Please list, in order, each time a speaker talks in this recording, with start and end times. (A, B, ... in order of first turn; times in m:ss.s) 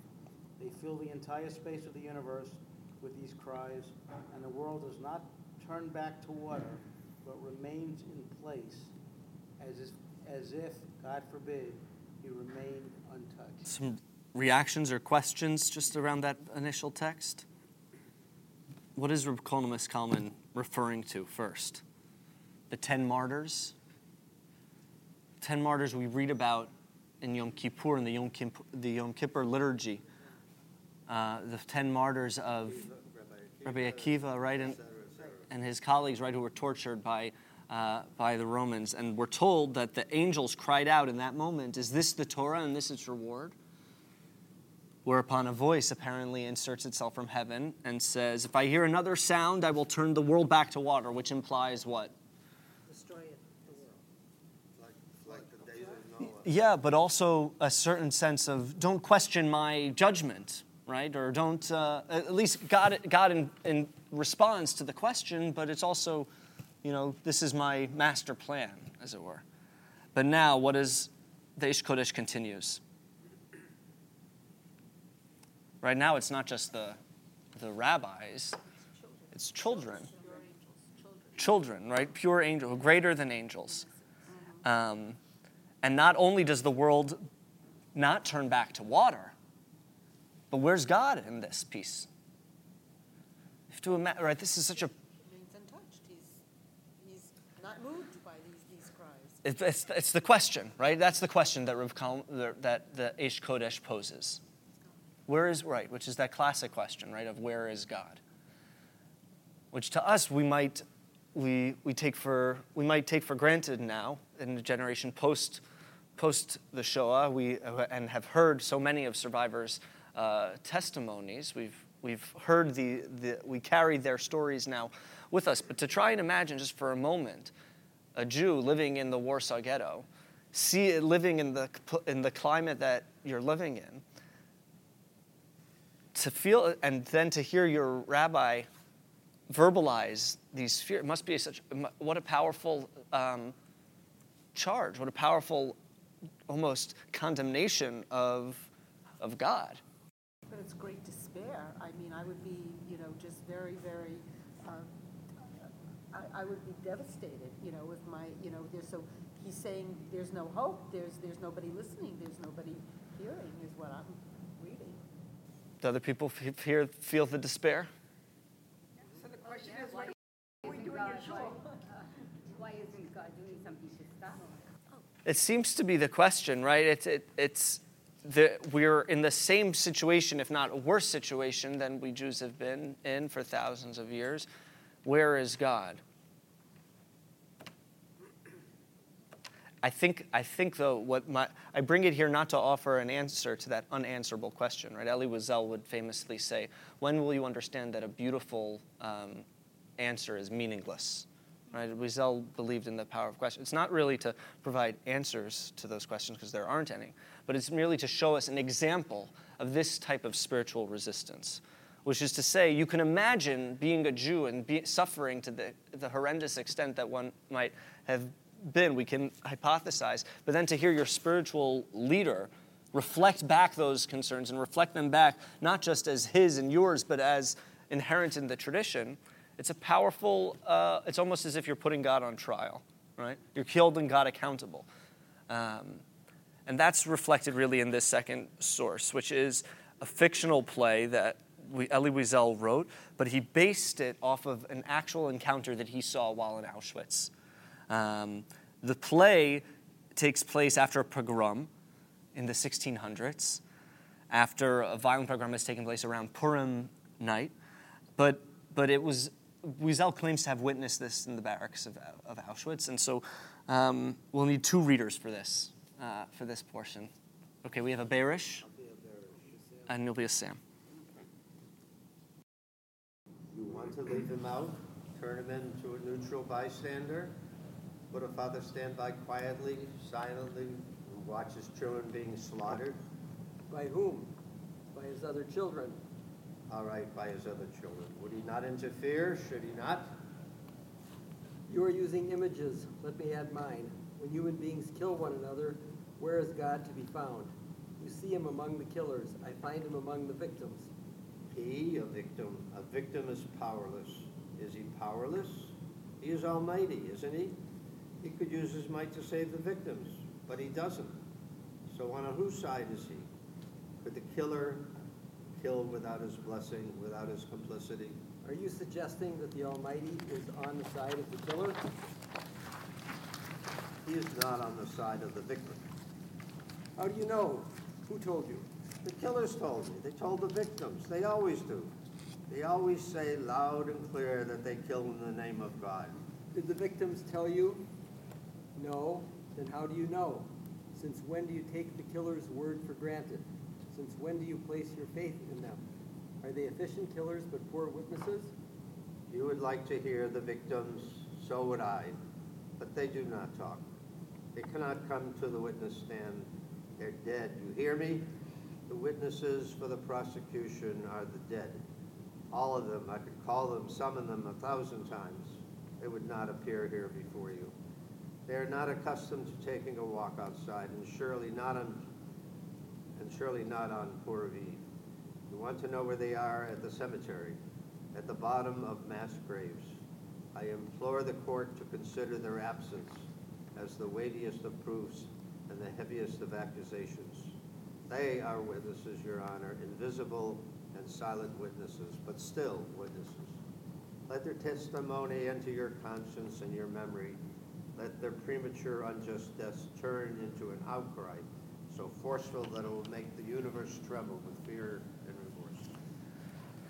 0:00.6-0:08.9 A
0:09.6-0:13.7 A
0:13.6-0:17.4 B
0:19.0-0:21.8 B
0:22.7-0:23.7 B
0:25.4-0:30.0 B
0:31.1-0:32.8 B
0:32.6-0:35.4 C
0:33.6-0:34.8 B
0:35.5-0:43.6 B
0:45.0-0:52.1 B
0:52.9-0:54.0 D
0:54.8-0:56.5 C
0:56.4-1:06.3 B
1:06.8-1:09.4 B
1:10.1-1:12.8 B
1:15.8-1:17.0 B
1:17.6-1:18.6 B
1:19.3-1:20.1 B
1:19.8-1:20.4 D
1:19.9-1:20.4 E
1:21.0-1:21.3 D
1:21.4-1:23.9 B
1:24.6-1:25.2 B
1:25.8-1:27.2 B
1:27.9-1:29.3 B
1:30.5-1:32.1 B
1:33.7-1:34.9 B
1:35.2-1:36.4 E
1:37.0-1:39.4 E
1:39.4-1:44.4 B
1:45.3-1:48.2 B
1:49.7-1:50.8 B
1:51.3-1:55.6 B
1:56.2-2:07.5 B
2:08.1-2:14.0 B
2:16.1-2:18.7 B
2:19.5-2:23.6 B
2:24.6-2:25.8 B
2:26.5-2:28.7 B
2:29.2-2:29.8 B
2:30.5-2:34.9 E
2:36.1-2:45.0 E
2:45.8-2:47.9 B
2:49.4-2:50.1 F
2:50.6-2:51.6 F
2:52.5-2:54.7 F
2:55.2-3:04.5 B
3:05.0-3:06.0 B
3:09.8-3:19.4 B
3:20.0-3:54.8 B
3:55.5-3:56.0 B
3:56.7-4:07.3 B
4:07.9-4:09.6 B
4:10.2-4:11.7 B
4:12.3-4:13.6 B
4:14.3-4:17.5 B
4:18.2-4:27.1 B
4:27.6-4:28.6 B
4:28.6-4:29.9 A
4:29.9-4:30.6 B
4:33.5-4:37.4 C
4:38.1-4:43.0 C
4:43.7-4:44.3 G
4:44.9-4:46.0 G
4:46.7-4:50.1 C
4:51.7-5:00.9 G
5:01.5-5:07.6 C
5:08.2-5:11.2 C
5:11.9-5:13.3 C
5:14.0-5:14.9 C
5:15.6-5:18.2 C
5:18.4-5:21.9 G
5:24.0-5:25.8 C
5:27.0-5:28.7 G
5:29.0-5:31.9 C
5:32.5-5:36.2 C
5:36.5-5:37.9 G
5:38.7-5:45.8 G
5:46.4-5:48.5 G
5:49.3-5:52.2 C
5:52.8-5:53.9 C
5:54.5-5:58.3 C
5:58.9-6:01.8 C
6:02.5-6:07.7 C
6:08.4-6:12.1 C
6:13.2-6:14.8 C
6:15.5-6:17.6 C
6:18.1-6:20.0 C
6:20.5-6:27.6 C
6:28.1-6:33.6 C
6:34.3-6:37.4 C
6:38.0-6:45.9 C